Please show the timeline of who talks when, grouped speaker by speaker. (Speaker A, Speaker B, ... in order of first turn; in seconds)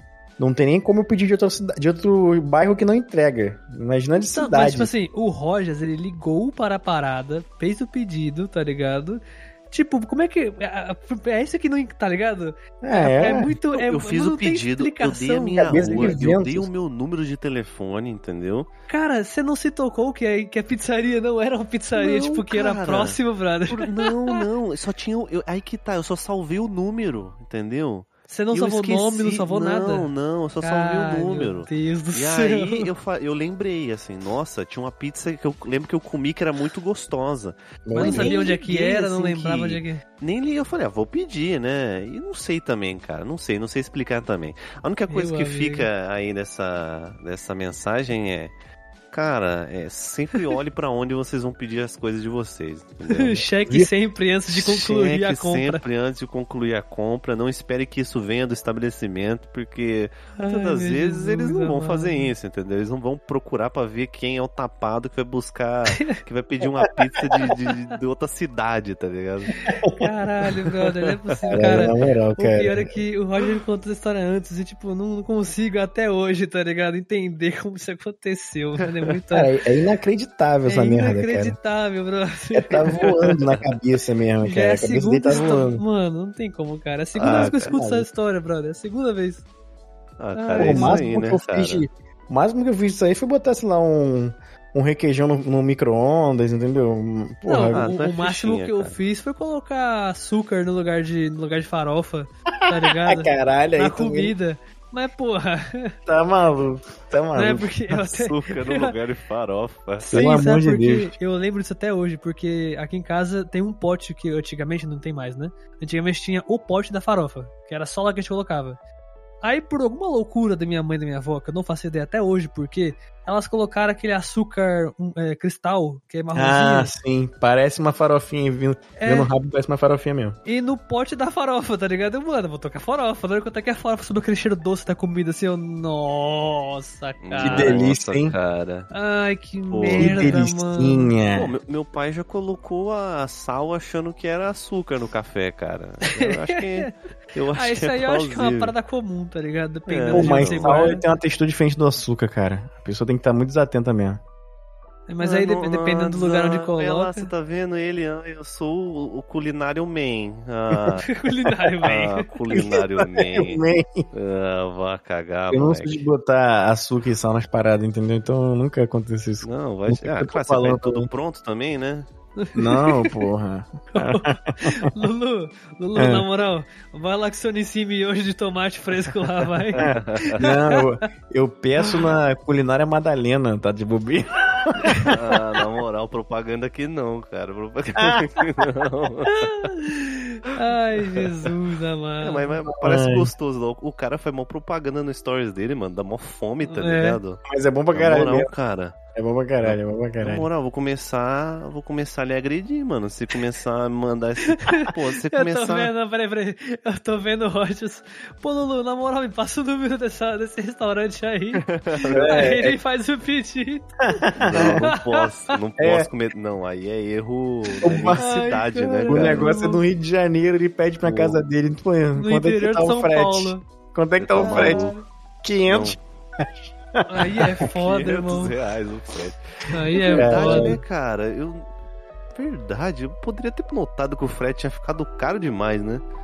Speaker A: 0.4-4.9, 12.8-13.6, 15.6-16.7, 37.9-38.6, 53.6-53.9, 69.7-70.0, 71.5-72.9, 79.3-81.6, 82.5-85.8, 87.2-88.1, 90.6-97.9, 102.5-104.3, 106.1-107.8, 110.1-111.2, 126.3-130.4, 137.4-138.4, 139.9-141.5, 150.1-154.2, 162.5-164.1, 165.5-171.1, 172.6-174.8, 176.0-176.2, 179.8-185.1, 192.7-193.3, 197.5-198.5, 199.1-200.5, 212.1-212.8, 214.2-214.9, 215.8-216.1, 217.8-218.3, 219.1-224.9, 225.4-227.5, 230.1-230.8
Speaker B: 4.3-16.2, 18.9-24.4, 28.3-32.9, 37.9-40.0, 45.1-45.9, 53.1-55.8, 60.4-62.3, 69.7-79.6, 80.6-83.1, 84.4-89.5, 90.3-91.1, 97.4-106.0, 107.3-108.9, 110.0-118.8, 119.4-126.9, 129.0-129.3, 130.4-137.9, 138.9-141.1, 146.1-146.9, 147.5-151.0, 155.1-157.3, 161.0-162.3, 172.4-173.2, 173.9-180.9, 189.3-192.6, 196.7-197.2, 204.5-214.9, 218.2-219.8, 222.1-223.7, 224.4-225.1, 227.1-228.6, 229.7-230.8
Speaker C: 13.7-18.7, 21.9-48.5, 49.1-53.5, 54.5-69.6, 83.0-83.6, 87.2-87.7, 90.2-91.9, 97.7-99.0, 107.9-110.2, 137.2-138.9, 139.7-140.4, 141.3-148.7, 149.9-151.0, 155.2-161.1, 161.8-166.0, 169.4-172.1, 179.7-180.4, 185.1-189.3, 192.2-199.0, 199.6-205.9, 211.6-212.5, 214.4-219.5, 221.0-221.4, 224.2-225.0, 225.7-226.0, 227.6-231.7, 232.3-236.1